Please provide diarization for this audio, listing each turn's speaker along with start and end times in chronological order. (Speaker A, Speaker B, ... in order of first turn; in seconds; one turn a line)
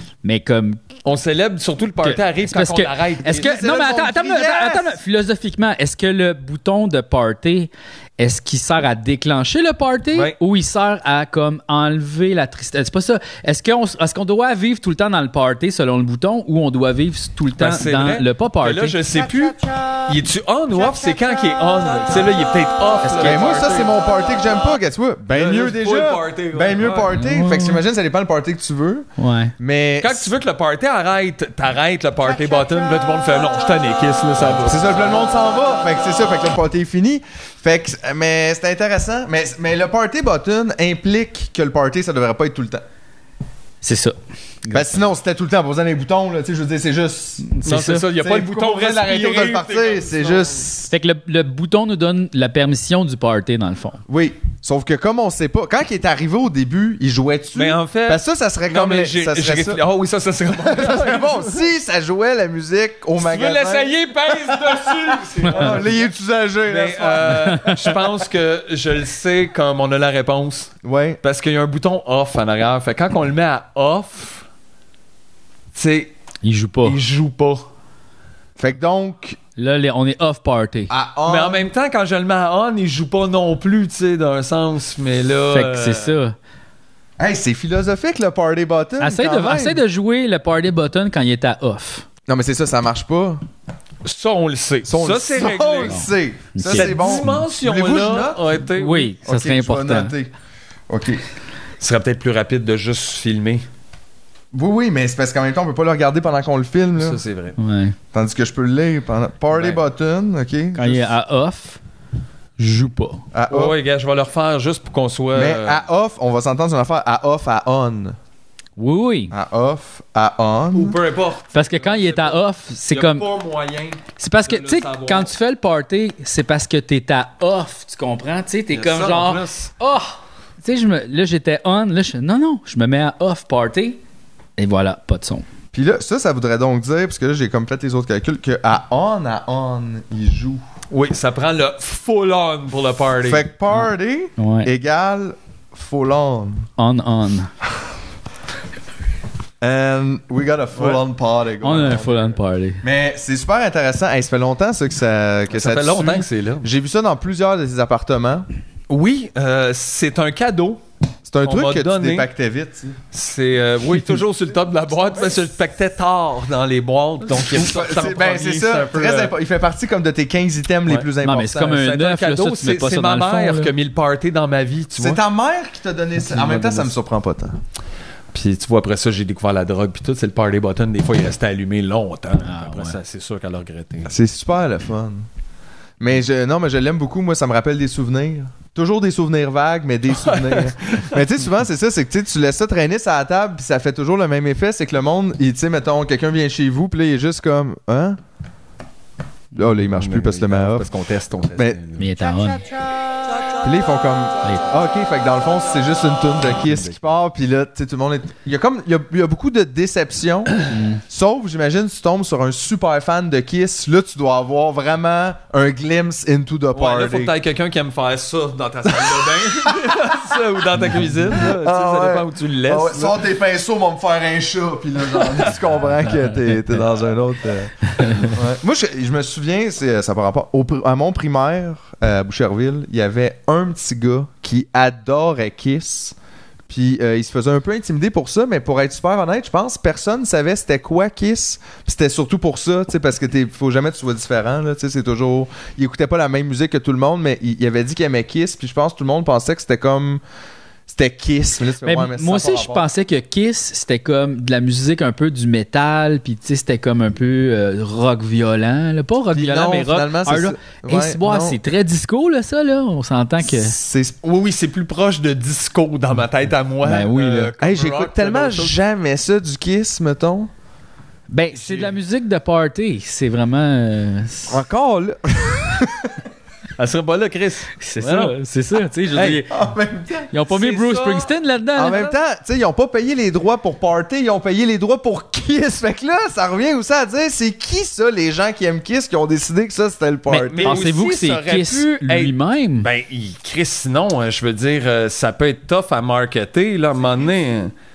Speaker A: 0.2-0.8
Speaker B: 1.0-3.6
Speaker A: 2.0-19.0
Speaker C: 3.3-5.0
Speaker B: 17.6-24.0
Speaker A: 23.1-23.3
Speaker C: 23.1-30.3
Speaker B: 25.3-27.1
Speaker A: 27.1-27.8
Speaker A: 29.2-29.5
Speaker B: 30.0-35.0
Speaker C: 34.5-42.8
Speaker A: 43.8-44.9
Speaker C: 44.7-47.5
Speaker A: 47.4-48.0
Speaker B: 47.6-50.6
Speaker C: 48.1-50.9
Speaker A: 50.9-54.0
Speaker C: 54.1-59.8
Speaker B: 57.5-61.6
Speaker C: 60.6-68.2
Speaker B: 63.2-66.1
Speaker B: 66.7-74.4
Speaker C: 70.8-71.2
Speaker B: 75.7-76.1
Speaker A: 76.4-77.0
Speaker B: 76.8-77.7
Speaker C: 78.6-79.4
Speaker A: 79.6-80.9
Speaker C: 80.9-81.7
Speaker B: 81.2-86.2
Speaker A: 85.5-86.3
Speaker C: 87.2-89.8
Speaker A: 89.0-92.0
Speaker C: 92.2-93.4
Speaker B: 94.0-96.0
Speaker C: 94.8-98.5
Speaker A: 95.9-97.4
Speaker B: 96.7-99.1
Speaker A: 98.7-100.1
Speaker C: 99.2-100.3
Speaker C: 100.9-101.2
Speaker B: 101.8-103.6
Speaker C: 104.5-107.2
Speaker B: 107.0-107.6
Speaker A: 107.6-107.9
Speaker C: 108.1-111.1
Speaker B: 109.5-109.8
Speaker A: 110.7-111.8
Speaker A: 112.6-113.2
Speaker C: 113.3-113.8
Speaker B: 113.5-115.8
Speaker C: 115.3-118.2
Speaker A: 118.8-119.3
Speaker C: 119.3-121.0
Speaker B: 120.7-125.3
Speaker A: 121.5-123.3
Speaker A: 124.2-134.0
Speaker B: 128.7-129.7
Speaker A: 134.6-135.4
Speaker C: 135.7-140.6
Speaker B: 140.9-143.5
Speaker C: 143.2-146.7
Speaker A: 143.7-144.7
Speaker A: 146.8-147.5
Speaker C: 149.6-152.3
Speaker B: 150.8-151.0
Speaker A: 151.6-152.8
Speaker C: 152.8-158.5
Speaker B: 155.5-156.7
Speaker B: 158.9-160.8
Speaker C: 161.3-163.0
Speaker B: 161.4-162.3
Speaker B: 163.1-169.3
Speaker C: 167.3-171.8
Speaker A: 171.2-173.7
Speaker B: 171.6-175.2
Speaker C: 175.0-177.6
Speaker B: 176.3-176.9
Speaker B: 178.3-184.1
Speaker A: 182.4-183.0
Speaker C: 184.1-185.2
Speaker C: 186.0-198.2
Speaker B: 190.1-191.3
Speaker C: 199.5-200.9
Speaker B: 199.8-202.1
Speaker C: 201.5-201.8
Speaker A: 202.0-202.6
Speaker C: 203.6-217.3
Speaker A: 204.4-204.7
Speaker A: 210.7-211.0
Speaker B: 216.7-223.2
Speaker C: 219.0-220.3
Speaker C: 221.4-236.1
Speaker C: 236.7-250.2
Speaker C: 250.9-252.9
Speaker A: 251.8-263.7
Speaker C: 259.3-261.6
Speaker C: 263.4-264.1
Speaker B: 264.2-268.8
Speaker A: 266.8-267.5
Speaker C: 267.6-270.5
Speaker A: 271.3-274.6
Speaker B: 271.5-271.9
Speaker C: 274.5-276.1
Speaker B: 276.8-278.3
Speaker A: 277.8-279.5
Speaker B: 279.1-279.4
Speaker C: 279.4-280.3
Speaker A: 280.3-282.1
Speaker B: 280.5-281.3
Speaker C: 281.8-290.9
Speaker B: 281.9-282.1
Speaker B: 290.3-297.7
Speaker A: 290.6-292.9